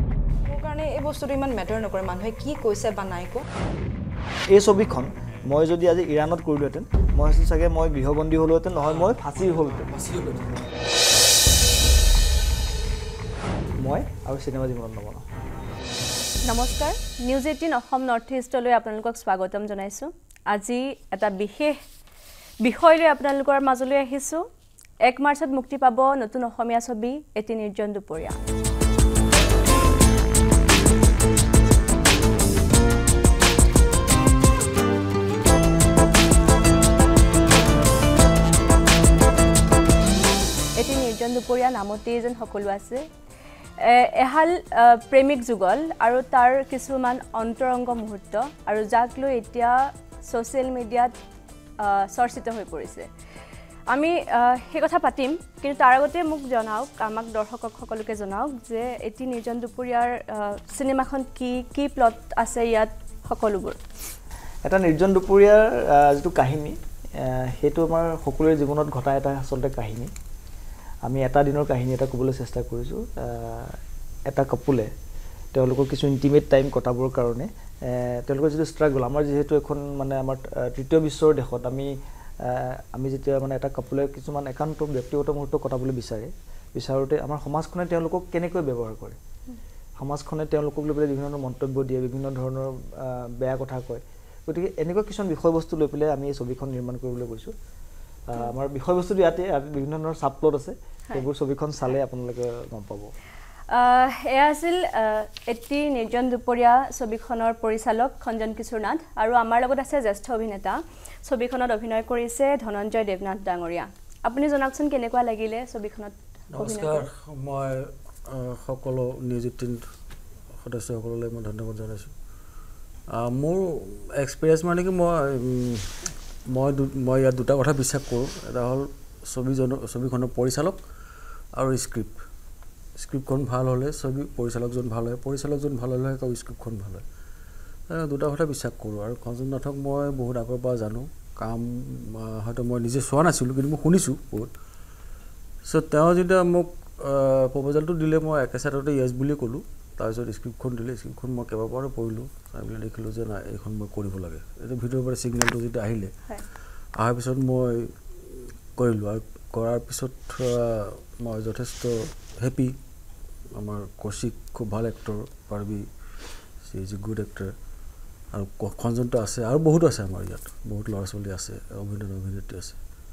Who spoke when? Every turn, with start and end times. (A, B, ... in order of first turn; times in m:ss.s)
0:00.4-0:03.5 A
0:04.5-0:10.0 B
0:08.9-0:10.6 C
0:13.8-0:15.2 B
0:16.4-0:21.8 D
0:22.6-0:24.5 D
0:25.0-0:28.5 D
0:40.8-0:43.0 D
0:43.8-0:51.1 D
0:51.8-0:53.1 D
0:53.9-1:03.8 D
1:04.6-1:10.1 B
1:11.0-1:14.9 B
1:15.5-1:29.2 B
1:30.0-1:37.5 B
1:38.3-1:43.1 B
1:43.7-1:57.0 D
1:56.5-1:59.9 C
2:00.6-2:02.1 C
2:03.1-2:10.8 C
2:11.5-2:12.2 C
2:13.0-2:17.0 C
2:17.9-2:24.5 C
2:25.6-2:36.1 C
2:36.9-2:42.8 C
2:43.5-2:45.9 C
2:46.6-2:47.5 C
2:48.3-2:52.8 C